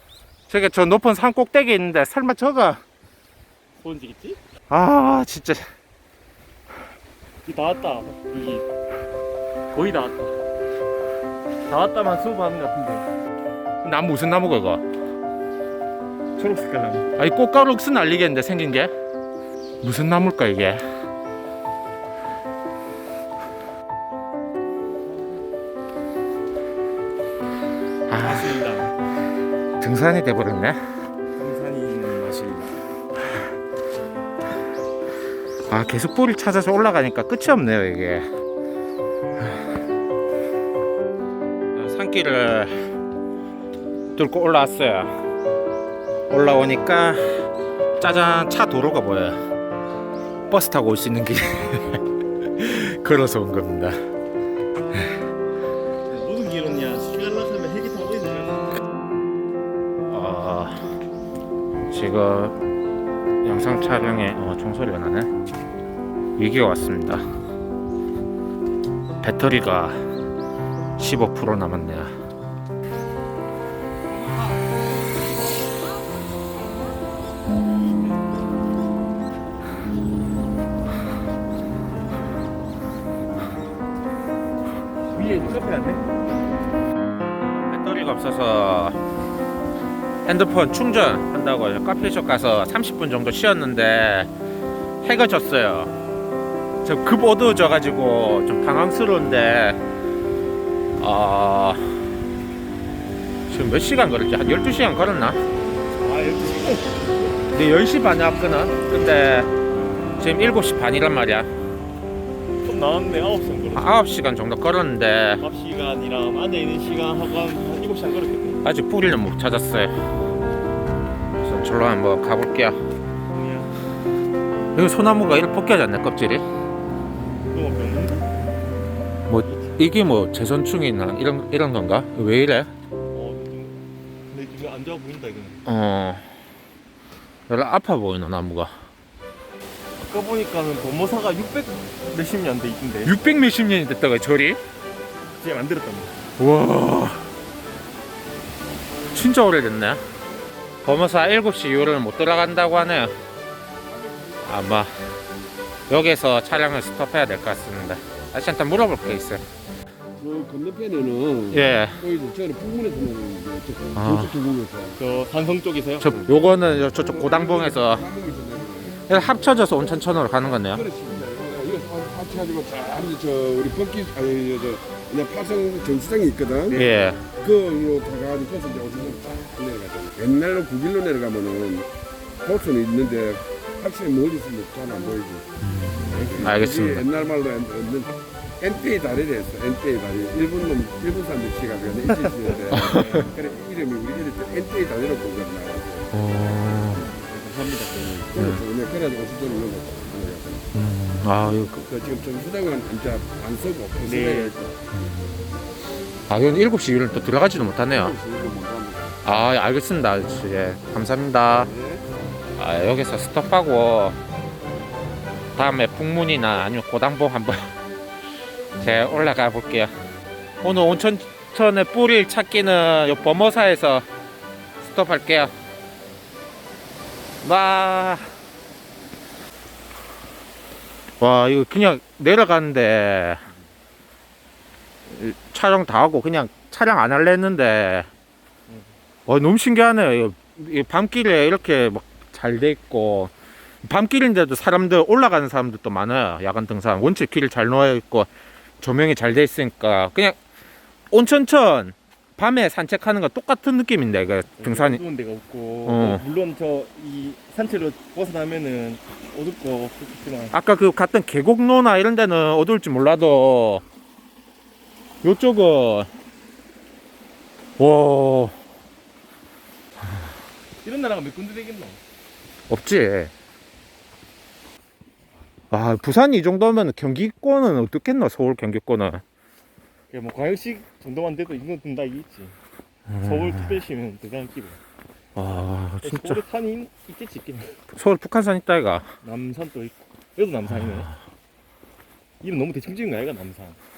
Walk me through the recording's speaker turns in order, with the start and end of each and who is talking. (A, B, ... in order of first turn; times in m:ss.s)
0:00.5-0:02.8 A
0:03.8-0:04.4 B
0:04.7-0:05.6 A
0:07.4-0:08.6 B
0:09.7-0:10.3 B
0:11.7-0:13.1 B
0:13.8-0:14.8 A
0:16.4-0:17.1 B
0:17.2-0:18.9 A
0:19.8-0:20.8 A
0:25.0-0:25.4 B
0:28.1-0:28.5 A
0:28.2-0:28.9 B
0:29.8-0:30.8 A
0:31.4-0:32.7 B
0:35.7-0:38.3 A
0:41.7-0:42.8 A
0:44.2-0:45.1 A
0:46.3-0:49.4 A
0:50.5-0:52.0 A
0:52.5-0:54.0 A
0:56.1-0:58.8 B
1:00.1-1:00.8 A
1:01.9-1:02.6 A
1:03.4-1:05.3 A
1:06.4-1:07.2 A
1:09.2-1:10.0 A
1:11.0-1:12.1 A
1:25.1-1:26.0 B
1:27.7-1:29.0 A
1:30.2-1:34.3 A
1:35.0-1:35.9 A
1:36.8-1:39.8 A
1:41.0-1:42.0 A
1:43.5-1:45.4 A
1:46.0-1:47.4 B
1:47.5-1:49.5 A
1:50.2-1:51.5 A
1:52.6-1:54.0 B
1:53.8-1:55.4 A
1:55.4-1:58.6 B
1:58.6-1:59.9 A
2:01.4-2:02.8 A
2:03.3-2:03.7 B
2:04.7-2:06.4 A
2:07.5-2:08.2 B
2:09.3-2:12.7 A
2:09.5-2:09.7 B
2:13.1-2:15.6 B
2:15.6-2:16.3 A
2:17.5-2:18.7 A
2:20.0-2:23.2 B
2:23.0-2:24.6 A
2:25.3-2:26.3 B
2:26.4-2:27.3 A
2:29.1-2:30.0 A
2:30.8-2:33.1 A
2:34.4-2:34.9 A
2:35.9-2:39.4 A
2:40.2-2:45.0 C
2:41.5-2:42.0 A
2:43.9-2:44.3 A
2:45.0-2:46.2 B
2:46.0-2:48.1 A
2:46.9-2:49.6 C
2:49.1-2:50.8 A
2:50.7-3:01.9 C
2:56.7-2:57.2 A
3:02.4-3:05.5 C
3:05.6-3:07.1 A
3:06.1-3:16.1 C
3:12.7-3:13.1 A
3:12.8-3:13.3 B
3:16.1-3:17.0 A
3:16.9-3:18.3 B
3:17.9-3:20.7 C
3:18.3-3:18.6 A
3:20.7-3:21.9 A
3:21.8-3:24.8 C
3:24.0-3:24.6 B
3:24.9-3:25.6 A
3:26.3-3:28.2 A
3:27.9-3:29.2 C
3:29.2-3:31.7 A
3:31.5-3:32.4 C
3:32.6-3:34.2 A
3:35.6-3:37.7 A
3:38.8-3:39.9 A
3:40.6-3:44.0 A
3:44.8-3:45.5 A
3:47.4-3:48.3 A
3:51.2-3:53.4 A
3:55.1-3:58.1 A
3:59.3-4:03.3 A
4:03.8-4:08.3 A
4:08.8-4:10.4 A
4:11.1-4:15.0 A
4:14.6-4:20.5 B
4:15.8-4:16.2 A
4:20.5-4:23.8 A
4:25.2-4:26.1 A
4:27.8-4:28.5 A
4:30.8-4:32.0 B
4:32.7-4:33.3 A
4:35.7-4:39.2 A
4:40.1-4:42.5 B
4:43.1-4:43.8 A
4:43.2-4:44.8 B
4:45.4-4:46.4 A
4:46.0-4:47.8 B
4:47.9-4:49.1 A
4:49.2-4:51.1 B
4:52.4-4:53.8 B